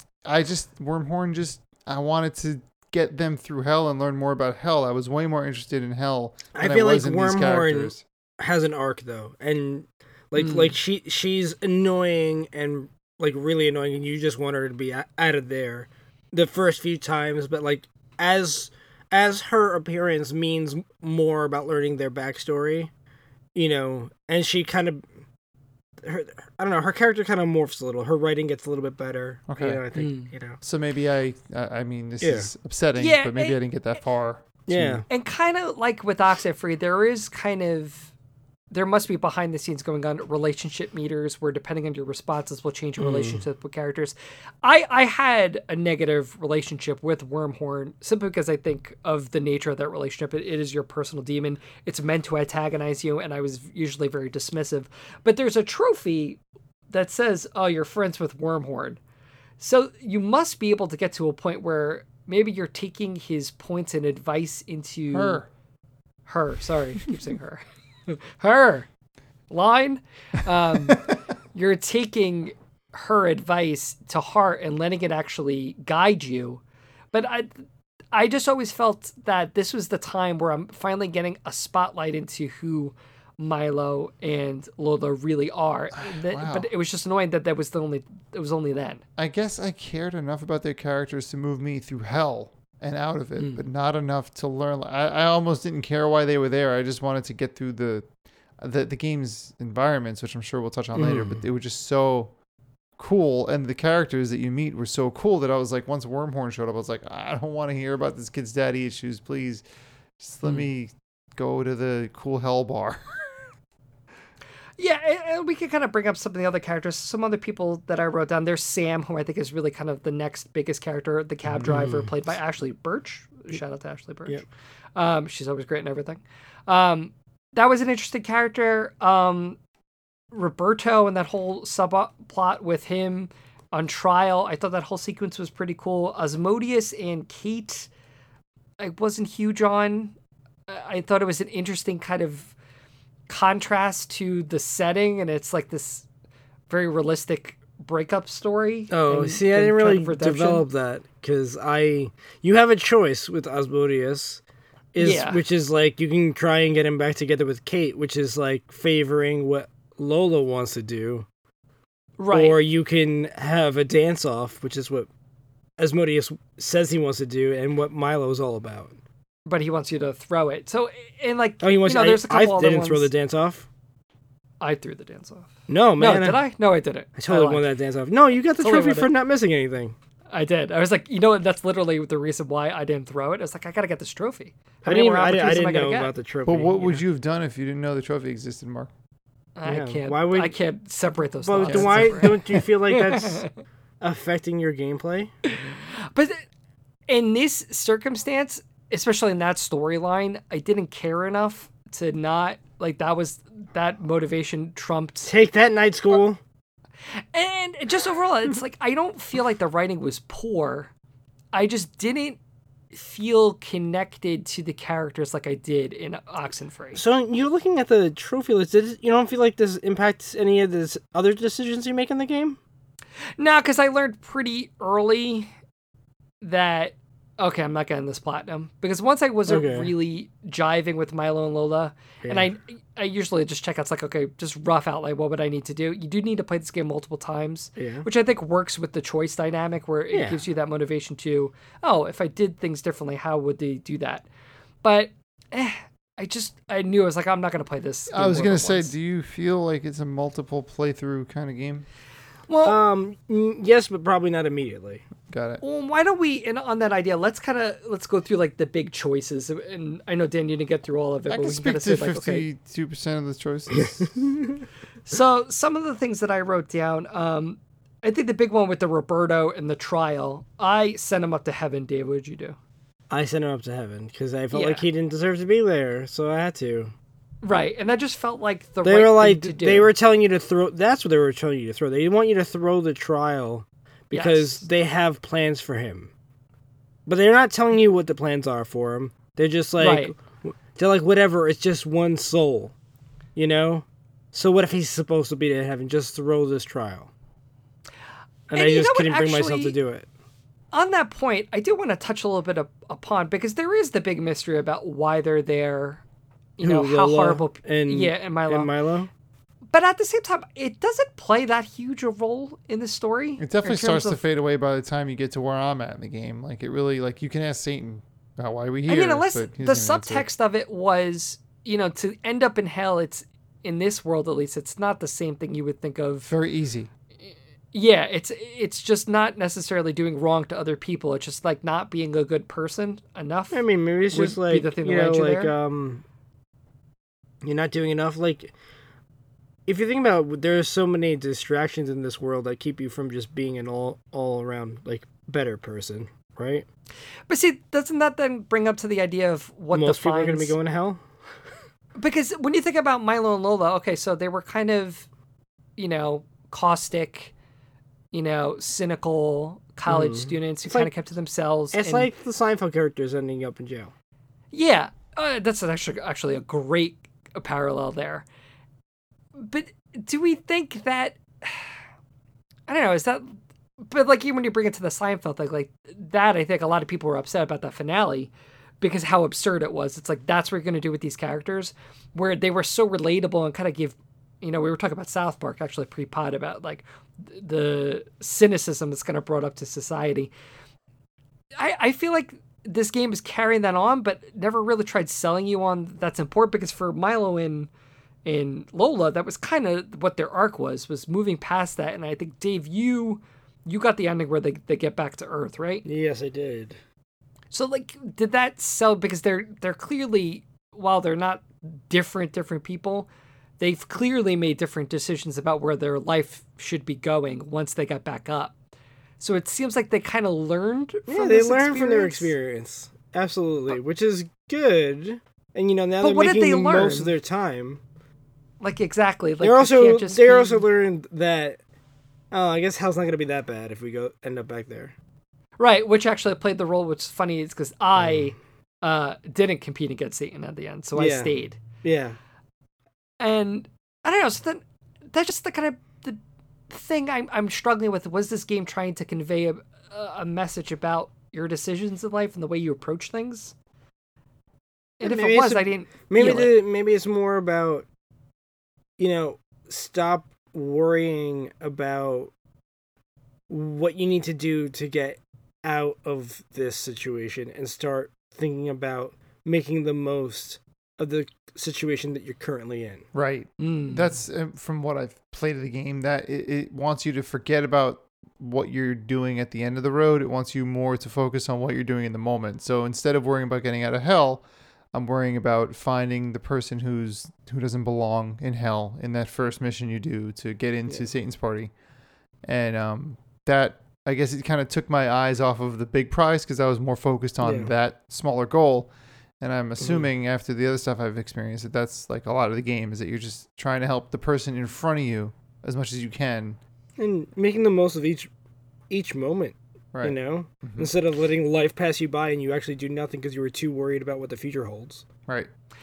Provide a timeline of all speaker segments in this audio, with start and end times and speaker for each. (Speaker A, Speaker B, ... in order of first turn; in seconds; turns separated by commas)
Speaker A: 0.2-8.0, Speaker B: 6.5-22.9, Speaker C: 10.4-10.7, Speaker B: 23.5-25.0, Speaker B: 26.0-30.6, Speaker A: 29.5-29.8, Speaker C: 29.9-30.3, Speaker A: 30.6-35.0, Speaker B: 32.2-32.5, Speaker C: 33.0-33.6, Speaker B: 34.7-35.0, Speaker C: 35.1-38.1, Speaker C: 38.7-56.4, Speaker B: 43.0-43.4, Speaker C: 56.9-59.0, Speaker C: 59.6-65.4, Speaker A: 65.1-65.5, Speaker C: 66.3-68.9, Speaker C: 69.5-76.6, Speaker C: 77.1-77.5, Speaker C: 78.1-89.0, Speaker A: 85.9-86.7, Speaker A: 89.2-98.0, Speaker C: 93.4-93.6, Speaker A: 98.6-102.3, Speaker B: 100.9-101.4, Speaker A: 103.0-109.6, Speaker A: 110.2-113.0, Speaker C: 114.8-124.4, Speaker B: 121.6-122.1, Speaker C: 125.0-129.6, Speaker C: 130.3-137.9, Speaker C: 138.8-140.1, Speaker C: 140.7-142.5, Speaker C: 143.3-146.1, Speaker C: 146.7-150.6, Speaker B: 148.9-154.4, Speaker B: 154.9-161.2, Speaker C: 155.0-155.4, Speaker C: 162.2-162.6, Speaker B: 162.3-165.1, Speaker B: 165.8-169.0, Speaker C: 169.4-173.1, Speaker B: 171.6-173.7, Speaker C: 174.6-177.7, Speaker B: 175.7-176.4, Speaker B: 177.2-179.9, Speaker C: 178.6-179.1, Speaker C: 180.3-186.1, Speaker B: 184.8-187.0, Speaker A: 186.4-188.9, Speaker C: 189.6-193.5, Speaker B: 189.7-190.5, Speaker B: 191.4-193.4, Speaker A: 191.7-192.3, Speaker B: 194.0-195.3, Speaker C: 195.5-196.4, Speaker C: 197.1-205.3, Speaker B: 205.3-206.4, Speaker C: 207.3-210.9, Speaker C: 211.5-212.4, Speaker C: 212.9-217.0, Speaker B: 216.9-222.6, Speaker C: 223.4-225.5, Speaker C: 226.4-244.3, Speaker B: 229.5-229.9, Speaker B: 232.2-232.5, Speaker B: 237.8-238.1, Speaker B: 240.1-240.4, Speaker C: 244.8-248.9, Speaker A: 248.1-251.8, Speaker C: 252.5-252.8, Speaker B: 252.6-255.1, Speaker A: 255.3-255.6, Speaker C: 255.6-262.4, Speaker A: 261.3-264.1, Speaker C: 265.1-272.6, Speaker B: 273.1-276.9, Speaker C: 274.5-274.9, Speaker C: 277.4-279.9, Speaker B: 278.8-286.1, Speaker C: 284.1-284.6, Speaker B: 287.1-292.7, Speaker C: 289.8-290.1, Speaker B: 293.4-297.1, Speaker B: 298.5-300.1, Speaker C: 298.5-299.8, Speaker C: 300.7-306.0, Speaker C: 306.6-308.7, Speaker B: 306.6-309.1, Speaker C: 309.7-314.2, Speaker A: 313.4-320.2, Speaker C: 318.9-326.3, Speaker A: 326.2-326.9, Speaker C: 327.7-335.5, Speaker B: 333.5-336.0, Speaker B: 337.4-338.5, Speaker B: 339.7-346.6, Speaker C: 347.3-350.5, Speaker B: 349.7-351.0, Speaker C: 352.0-355.1, Speaker C: 355.8-357.3, Speaker C: 358.1-362.1, Speaker B: 359.9-360.9, Speaker B: 361.7-363.9, Speaker C: 364.5-368.2, Speaker C: 369.4-371.8, Speaker C: 372.7-373.4, Speaker C: 373.9-390.3, Speaker C: 391.6-397.7, Speaker C: 398.2-405.8, Speaker B: 405.8-406.8, Speaker C: 407.5-413.1, Speaker C: 413.6-418.5, Speaker C: 419.2-422.3, Speaker B: 421.1-427.8, Speaker C: 426.0-427.1, Speaker C: 428.6-430.6, Speaker B: 429.4-431.6, Speaker B: 432.3-434.9, Speaker C: 435.6-441.6, Speaker B: 440.9-442.2, Speaker C: 443.2-446.2, Speaker C: 446.7-453.5, Speaker B: 455.0-457.9, Speaker C: 455.0-456.5, Speaker B: 459.0-462.3, Speaker B: 463.5-473.0, Speaker A: 473.1-491.7, Speaker C: 473.6-474.2, Speaker A: 492.4-506.6, Speaker B: 497.4-497.7, Speaker B: 499.8-500.1, Speaker B: 507.0-508.3, Speaker B: 508.9-515.0, Speaker A: 509.9-510.9